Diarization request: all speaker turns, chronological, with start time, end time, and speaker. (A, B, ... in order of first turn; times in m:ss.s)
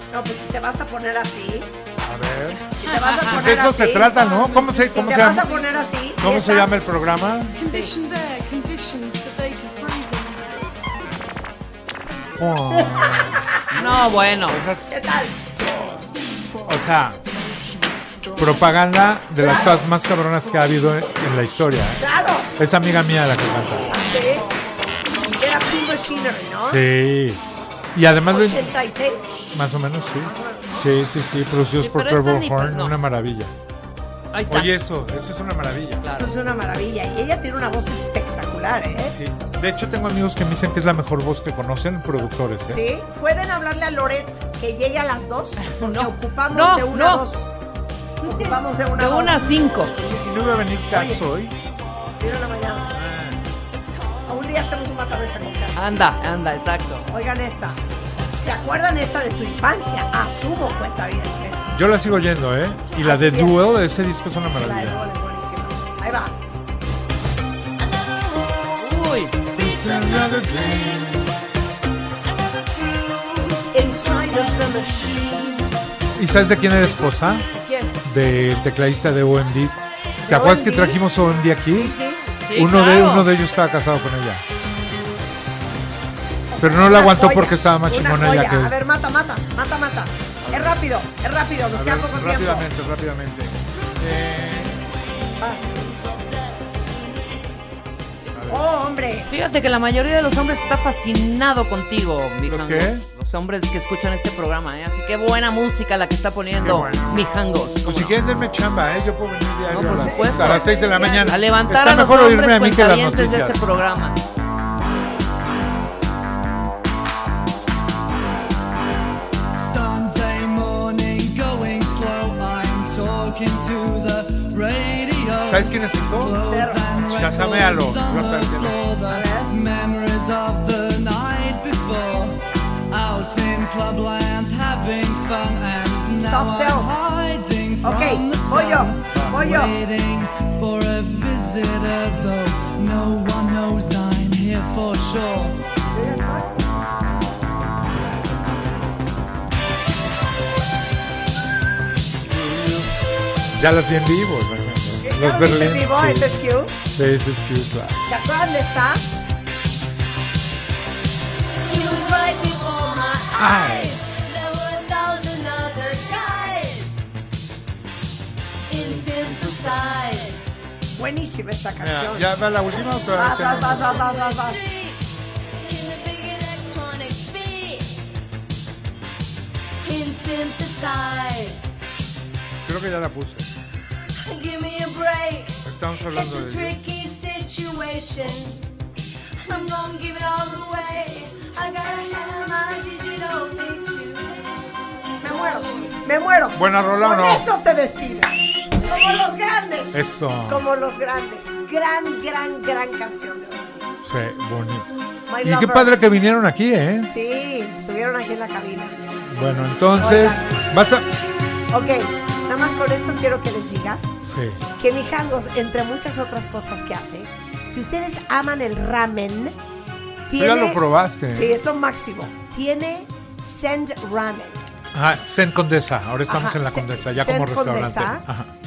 0:00.1-0:01.7 A
0:02.0-0:02.6 B
0:02.8-0:04.3 A
0:02.8-0:03.4 C
0:03.3-0:05.6 B
0:04.0-0:05.9 D
0:04.8-0:06.7 A
0:06.2-0:07.6 B
0:07.5-0:10.6 D
0:07.6-0:07.9 A
0:11.9-0:12.4 D
0:12.4-0:15.0 B
0:12.7-0:13.6 A
0:13.7-0:14.6 C
0:14.9-0:16.0 A
0:16.6-0:17.2 B
0:18.4-0:22.0 B
0:19.4-0:19.8 A
0:22.0-0:22.5 A
0:22.6-0:23.9 B
0:23.9-0:24.5 A
0:25.2-0:26.8 A
0:26.6-0:27.4 B
0:27.9-0:28.8 B
0:28.3-0:29.4 A
0:29.5-0:33.5 B
0:30.2-0:30.8 A
0:31.8-0:32.9 C
0:34.3-0:34.7 C
0:34.5-0:36.0 B
0:36.0-0:36.3 C
0:36.1-0:39.2 A
0:39.1-0:42.8 B
0:42.6-0:47.5 A
0:45.6-0:47.2 C
0:48.2-0:49.9 C
0:48.2-0:49.9 A
0:49.9-0:51.6 B
0:50.9-0:51.2 A
0:52.2-0:53.0 A
0:52.9-0:53.4 B
0:54.2-0:55.8 A
0:55.7-0:57.1 C
0:57.1-0:57.8 A
0:58.4-1:01.8 A
1:01.7-1:05.1 B
1:03.0-1:03.6 A
1:04.6-1:06.3 A
1:08.8-1:09.4 C
1:09.5-1:11.3 B
1:13.5-1:15.8 A
1:16.1-1:17.5 B
1:17.5-1:17.9 A
1:18.0-1:21.9 B
1:20.3-1:21.0 A
1:21.6-1:22.2 A
1:22.4-1:23.3 C
1:22.6-1:24.4 B
1:26.5-1:32.7 A
1:26.6-1:28.8 B
1:30.5-1:30.8 B
1:31.7-1:34.8 B
1:35.4-1:35.9 A
1:38.3-1:38.7 B
1:38.5-1:39.3 A
1:39.2-1:48.1 C
1:42.5-1:43.0 B
1:46.5-1:47.1 B
1:47.8-1:53.7 B
1:49.7-1:54.2 C
1:49.8-1:51.4 A
1:59.6-2:12.4 E
2:05.4-2:08.8 B
2:06.3-2:07.0 A
2:09.1-2:09.6 A
2:12.9-2:25.5 E
2:16.2-2:16.9 A
2:17.8-2:19.8 A
2:19.1-2:19.4 B
2:25.9-2:26.5 A
2:32.2-2:32.9 B
2:33.5-2:38.1 B
2:35.0-2:36.7 A
2:38.1-2:39.0 A
2:41.6-2:47.0 F
2:43.3-2:44.0 B
2:48.7-2:49.9 B
2:48.7-2:50.4 F
2:50.9-2:52.3 A
2:51.8-2:54.0 B
2:52.9-2:58.0 F
2:53.1-2:54.6 A
2:59.8-3:01.6 F
3:02.6-3:03.5 B
3:04.2-3:08.6 F
3:05.6-3:06.8 B
3:09.4-3:15.2 F
3:15.2-3:23.9 A
3:16.5-3:17.5 B
3:19.9-3:20.6 B
3:24.0-3:24.9 B
3:25.3-3:25.9 A
3:25.4-3:27.1 B
3:27.0-3:29.2 A
3:29.3-3:31.1 B
3:29.9-3:30.5 A
3:31.7-3:34.2 A
3:34.2-3:34.6 B
3:34.8-3:39.6 A
3:40.3-3:44.7 A
3:40.3-3:41.6 B
3:44.9-3:48.5 B
3:46.3-3:48.2 A